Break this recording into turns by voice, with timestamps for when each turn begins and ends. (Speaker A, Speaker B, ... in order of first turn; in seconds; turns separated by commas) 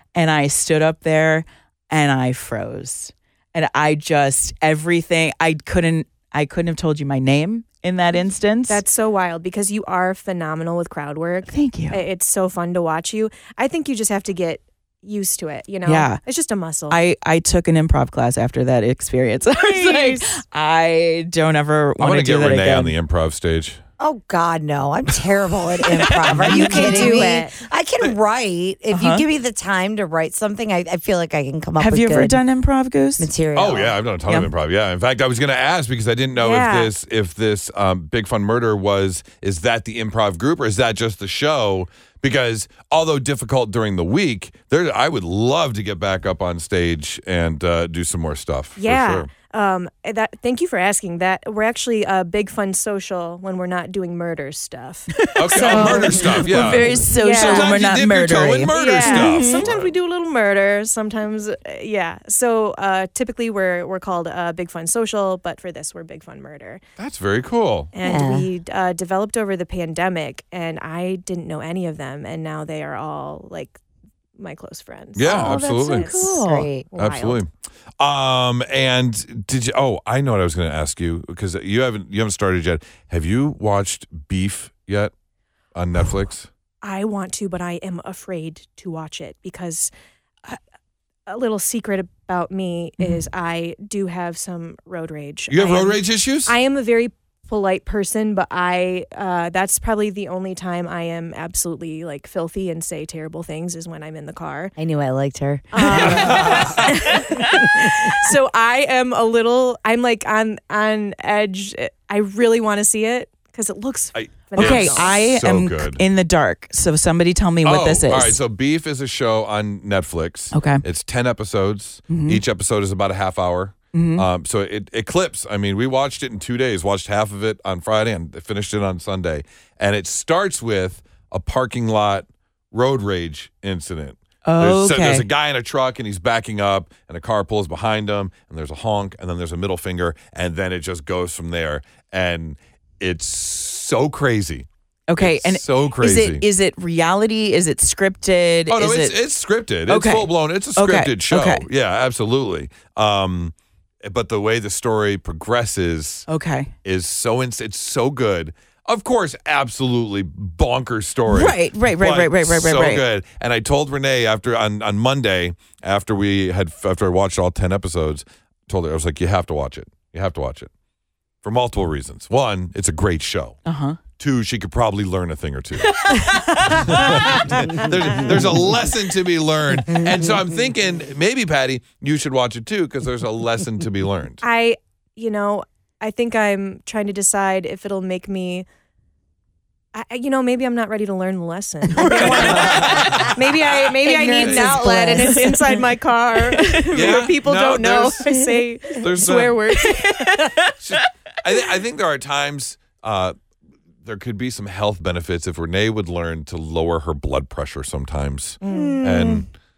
Speaker A: 0.1-8.8, Speaker B: 8.7-17.0, Speaker A: 11.5-12.0, Speaker A: 15.9-16.2, Speaker A: 16.9-22.9, Speaker B: 19.5-20.4, Speaker C: 22.0-23.8, Speaker D: 24.0-32.4, Speaker A: 26.0-27.3, Speaker B: 26.4-27.5, Speaker A: 28.9-29.2, Speaker A: 31.8-33.3, Speaker D: 33.2-34.0, Speaker C: 33.5-49.3, Speaker B: 36.4-36.9, Speaker B: 48.8-57.8, Speaker A: 55.1-59.6, Speaker C: 55.4-59.9, Speaker B: 58.7-66.8, Speaker C: 67.0-67.9, Speaker B: 67.9-73.8, Speaker D: 68.0-68.5, Speaker B: 74.4-77.4, Speaker C: 75.2-76.1, Speaker A: 75.2-76.7, Speaker D: 76.2-76.9, Speaker C: 77.0-85.1, Speaker C: 85.7-86.5, Speaker B: 86.8-89.9, Speaker B: 91.3-104.7, Speaker A: 93.0-93.2, Speaker C: 95.5-96.5, Speaker D: 104.8-108.1, Speaker B: 105.7-115.1, Speaker C: 105.9-106.9, Speaker C: 114.1-116.0, Speaker A: 114.6-118.4, Speaker C: 117.6-144.7, Speaker A: 120.5-120.8, Speaker A: 122.1-122.4, Speaker A: 123.9-124.2, Speaker A: 134.4-135.3, Speaker A: 145.1-149.2, Speaker C: 145.2-146.4, Speaker C: 148.7-156.3, Speaker A: 149.9-151.7, Speaker A: 156.3-156.7, Speaker C: 156.8-170.7, Speaker A: 161.3-163.0, Speaker C: 171.4-173.6, Speaker A: 173.7-174.0, Speaker C: 174.2-184.4, Speaker A: 175.9-177.5, Speaker B: 184.4-188.7, Speaker B: 189.9-200.6, Speaker A: 191.9-193.3, Speaker D: 192.0-193.3, Speaker C: 192.1-194.7, Speaker A: 194.0-195.8, Speaker D: 194.6-195.3, Speaker A: 196.5-197.2, Speaker C: 196.9-198.2, Speaker C: 198.9-199.6, Speaker A: 199.8-201.0, Speaker C: 200.8-203.4, Speaker C: 204.0-209.5, Speaker B: 208.6-209.2, Speaker D: 208.6-209.4